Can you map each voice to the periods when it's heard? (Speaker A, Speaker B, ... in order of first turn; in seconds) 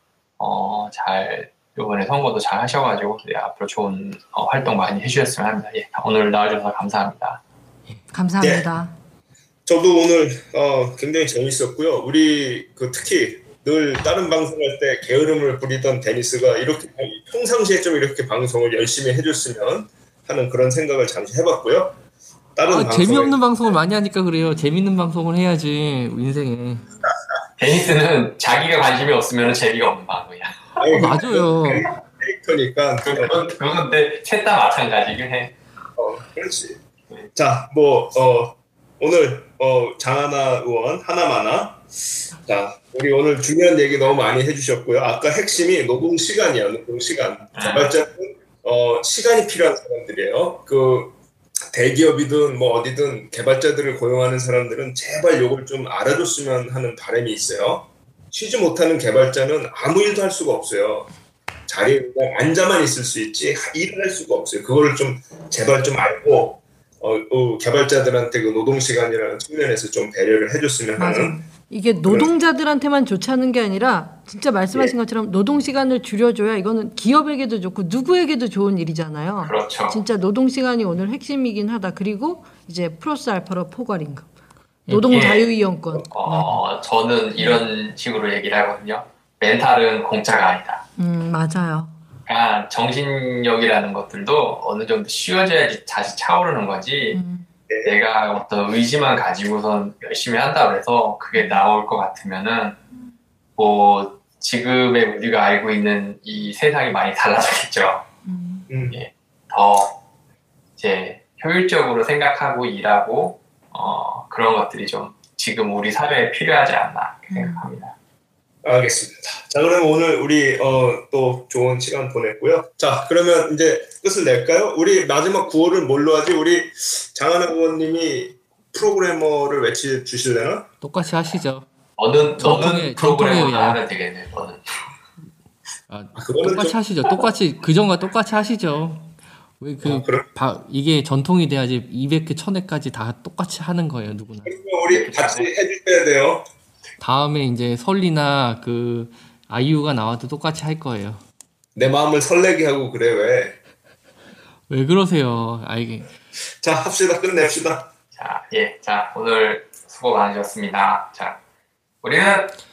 Speaker A: 0.4-7.4, 27.6-30.7, 33.0-35.5, 47.5-47.9, 79.4-80.0, 85.1-85.4, 86.1-90.8, 92.3-97.2, 97.8-102.8, 103.6-108.0, 108.9-110.0, 110.8-117.9, 132.0-134.6, 144.9-145.5, 158.2-161.4, 162.0-162.5
Speaker B: 8.1-8.9, 71.0-84.3, 84.9-86.6, 91.0-92.0, 97.1-97.5, 101.3-101.6, 108.2-108.7, 117.3-117.6
Speaker C: 8.4-8.7, 9.7-22.0, 22.6-23.4, 30.8-33.5, 36.0-36.8, 37.4-41.8, 42.5-51.1, 51.7-61.1, 61.7-71.4, 72.0-72.3, 108.7-109.0, 118.6-130.7, 136.2-136.8, 139.8-140.3, 144.4-146.5, 151.8-153.6, 156.6-157.9
Speaker D: 22.7-26.9, 30.9-31.9, 84.9-85.3, 130.8-131.7, 132.4-133.8, 135.9-144.6, 147.0-151.2, 154.7-156.1